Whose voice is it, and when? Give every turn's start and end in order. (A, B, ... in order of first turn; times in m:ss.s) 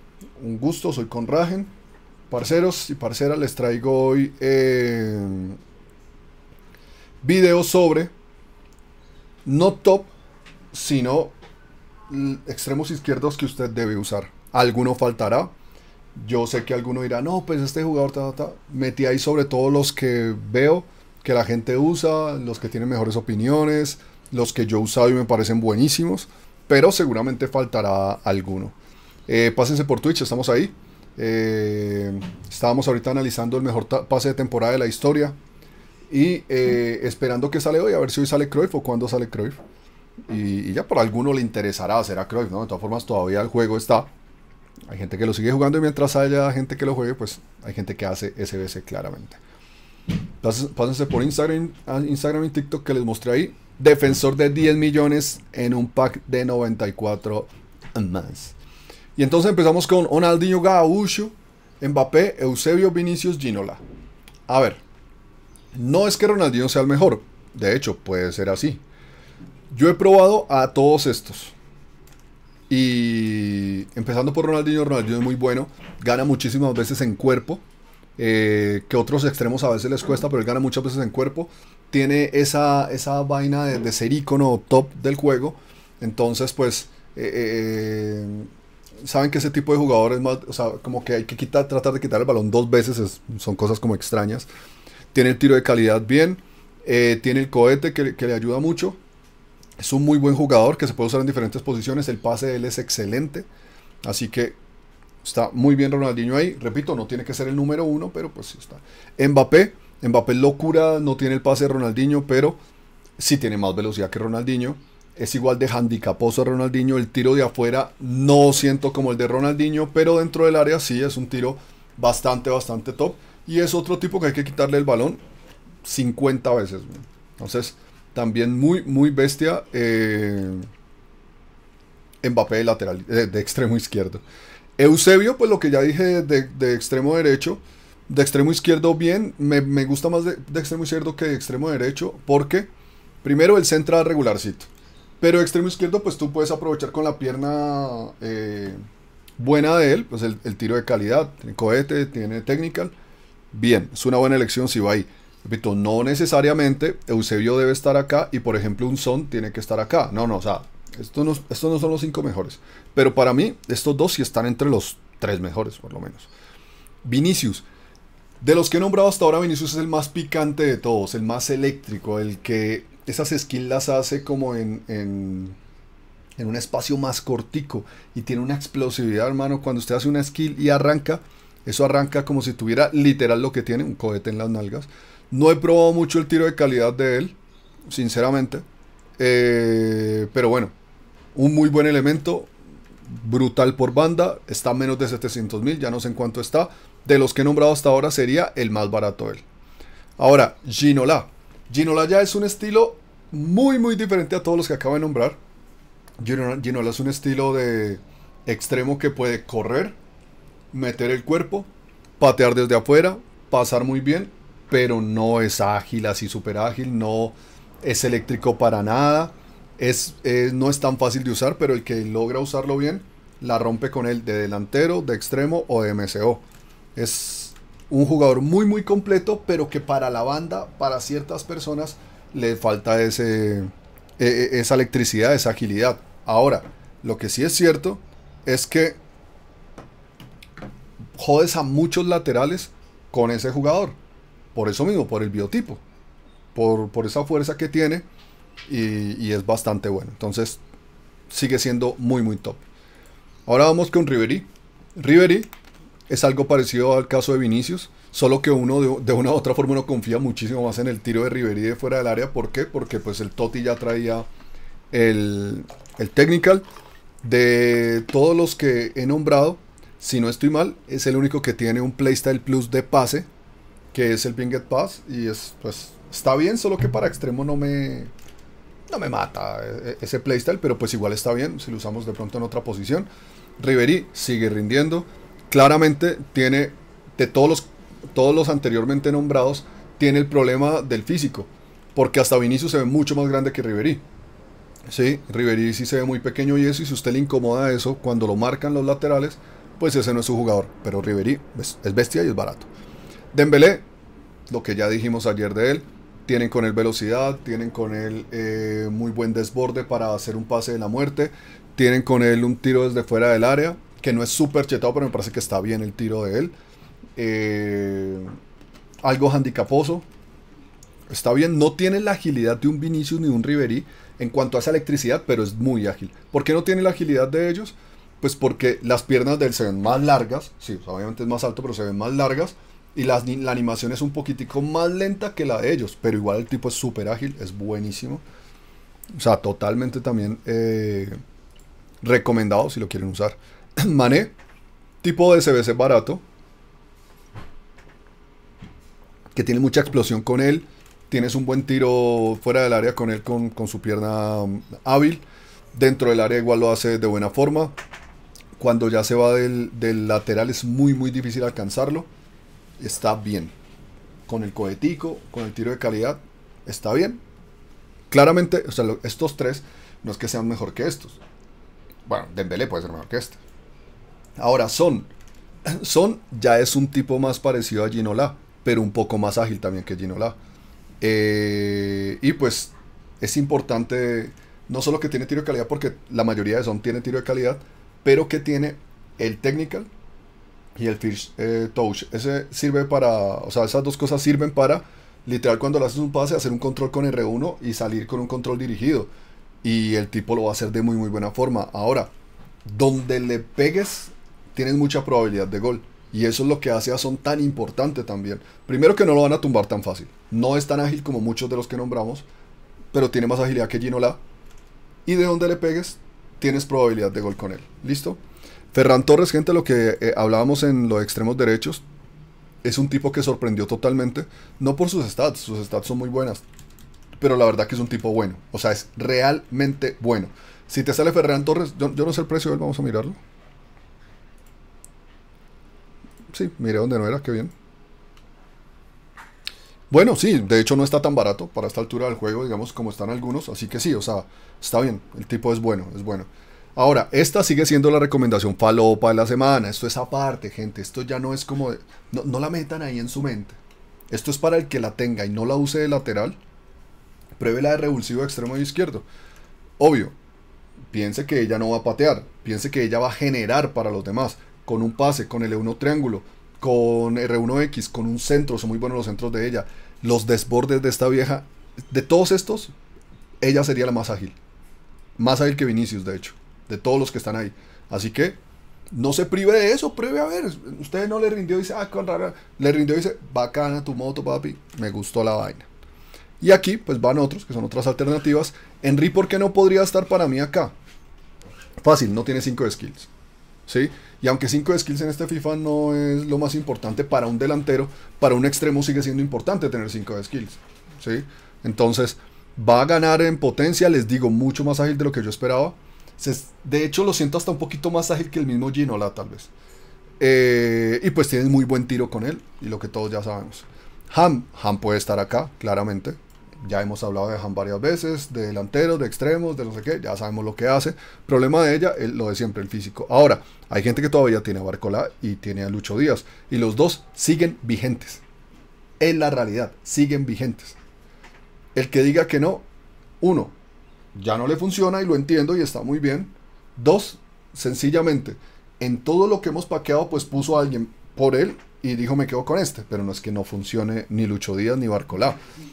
0:00.4-0:01.7 A
0:02.3-0:05.6 A
0:07.2-0:08.1 A
0:09.5-0:10.1 A
0:10.7-0:11.3 A
0:12.1-0:15.5 A
0:16.2-0:28.8 A
0:29.3-0:35.4 A
0:36.1-0:39.6 A
0:40.3-0:44.1 A
0:44.9-0:49.4 A
0:50.4-0:58.6 A
0:59.2-1:03.8 A
1:04.5-1:04.8 A
1:05.7-1:08.8 A
1:09.7-1:11.5 A
1:12.7-1:17.6 A
1:18.2-1:28.5 A
1:29.0-1:34.5 A
1:35.1-1:39.0 A
1:39.8-1:43.5 A
1:44.0-1:44.6 A
1:45.2-1:52.6 A
1:53.2-2:05.2 A
2:05.8-2:10.7 A
2:12.2-2:14.2 A
2:14.8-2:22.7 A
2:23.2-2:24.7 A
2:25.2-2:28.8 A
2:29.4-2:32.9 A
2:33.5-2:46.3 A
2:47.0-2:47.7 A
2:48.4-2:55.6 A
2:56.4-3:07.4 A
3:07.9-3:08.6 A
3:09.2-3:10.7 A
3:11.3-3:12.5 A
3:13.1-3:19.4 A
3:20.2-3:25.4 A
3:26.2-3:30.0 A
3:30.7-3:46.4 A
3:47.0-3:59.0 A
4:01.2-4:04.0 A
4:04.5-4:05.8 A
4:06.5-4:08.0 A
4:08.7-4:10.6 A
4:11.3-4:12.6 A
4:13.5-4:15.5 A
4:16.1-4:24.2 A
4:24.9-4:26.6 A
4:27.2-4:33.3 A
4:33.9-4:38.1 A
4:38.9-4:43.1 A
4:43.6-4:54.0 A
4:54.9-5:02.7 A
5:03.3-5:03.8 A
5:04.5-5:16.5 A
5:17.2-5:18.3 A
5:19.0-5:20.1 A
5:21.1-5:38.2 A
5:39.1-5:41.2 A
5:42.0-5:44.3 A
5:45.0-5:46.2 A
5:49.3-5:55.2 A
5:55.7-5:57.8 A
5:58.6-6:02.1 A
6:02.8-6:03.5 A
6:04.3-6:07.2 A
6:08.1-6:11.2 A
6:12.1-6:13.4 A
6:14.4-6:15.1 A
6:15.7-6:20.4 A
6:21.0-6:29.9 A
6:30.8-6:39.1 A
6:39.6-6:42.1 A
6:42.7-6:52.2 A
6:52.9-6:54.2 A
6:55.1-6:58.2 A
6:58.7-7:01.8 A
7:02.6-7:06.4 A
7:07.2-7:13.2 A
7:16.3-7:17.5 A
7:19.9-7:33.6 A
7:34.1-7:36.4 A
7:37.4-7:39.1 A
7:39.8-7:40.1 A
7:40.9-7:52.7 A
7:53.4-7:54.4 A
7:55.2-7:58.4 A
7:58.9-8:05.7 A
8:06.4-8:10.7 A
8:11.8-8:13.1 A
8:13.7-8:29.5 A
8:30.2-8:48.2 A
8:49.0-8:50.8 A
8:51.8-8:52.6 A
8:53.2-8:53.6 A
8:54.1-9:05.4 A